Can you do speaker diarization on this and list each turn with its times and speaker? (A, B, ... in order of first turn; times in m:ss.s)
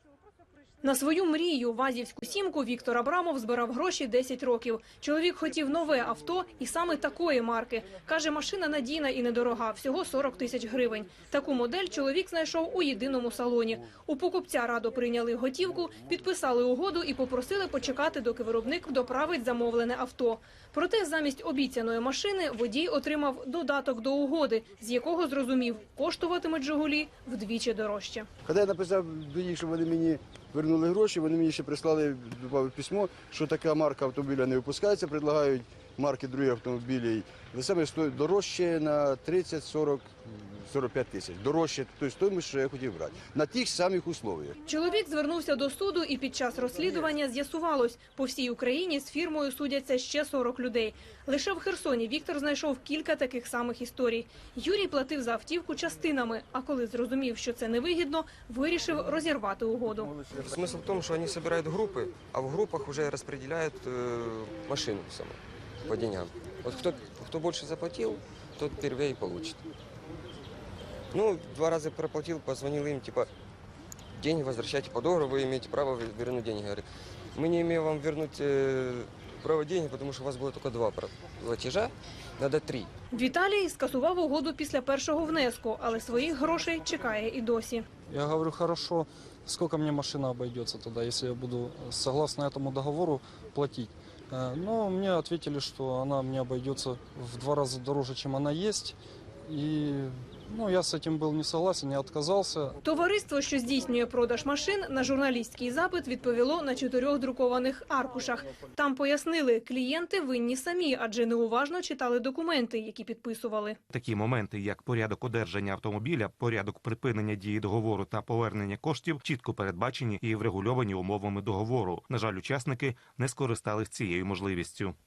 0:00.8-0:28.3 A
0:28.4-0:40.1 B
0:40.6-0:44.5 B
0:44.6-1:00.1 A
1:00.3-1:09.6 C
1:11.1-1:13.3 C
1:14.1-1:22.9 C
1:23.1-1:27.8 A
1:28.1-1:42.8 D
1:42.8-1:53.8 A
1:53.9-2:05.0 E